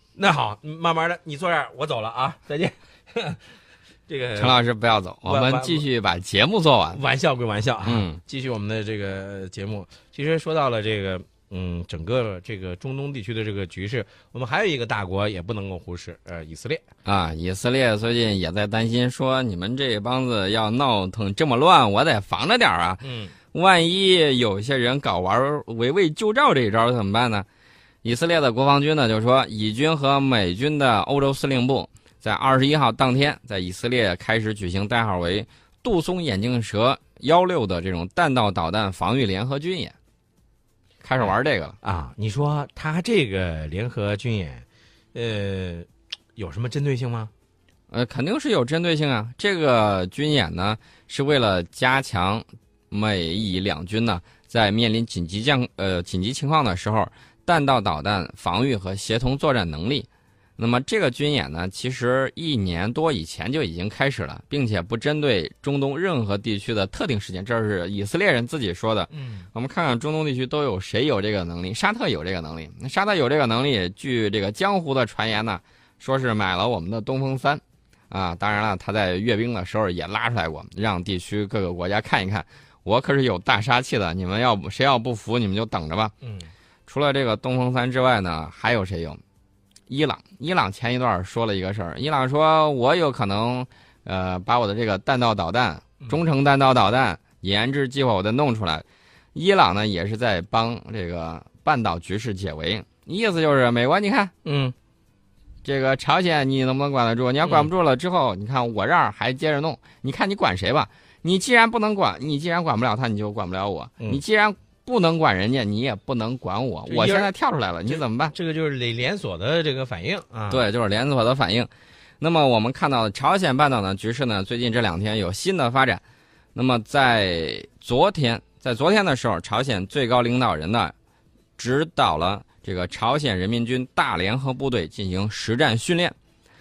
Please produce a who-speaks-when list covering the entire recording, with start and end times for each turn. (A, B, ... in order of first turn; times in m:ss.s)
0:00.2-0:03.4 A
0:04.1-0:04.6 A
0:04.4-0:07.0 B
0:05.3-0:05.8 A
0:06.9-0:16.8 A
0:07.8-0:08.2 B
0:17.0-0:27.5 B
0:23.0-0:23.4 A
0:28.0-0:40.0 B
0:41.0-0:41.8 B
0:41.2-0:47.3 A
0:47.9-1:26.1 B
1:09.1-1:09.5 A
1:26.2-1:26.5 A
1:26.9-1:29.2 B
1:29.9-1:44.3 B
1:44.4-1:44.8 A
1:45.6-1:58.4 B
1:47.4-1:47.7 A
1:56.9-1:57.3 A
1:57.9-2:00.6 A
2:00.5-2:06.0 B
2:06.6-2:10.9 B
2:11.6-2:16.2 B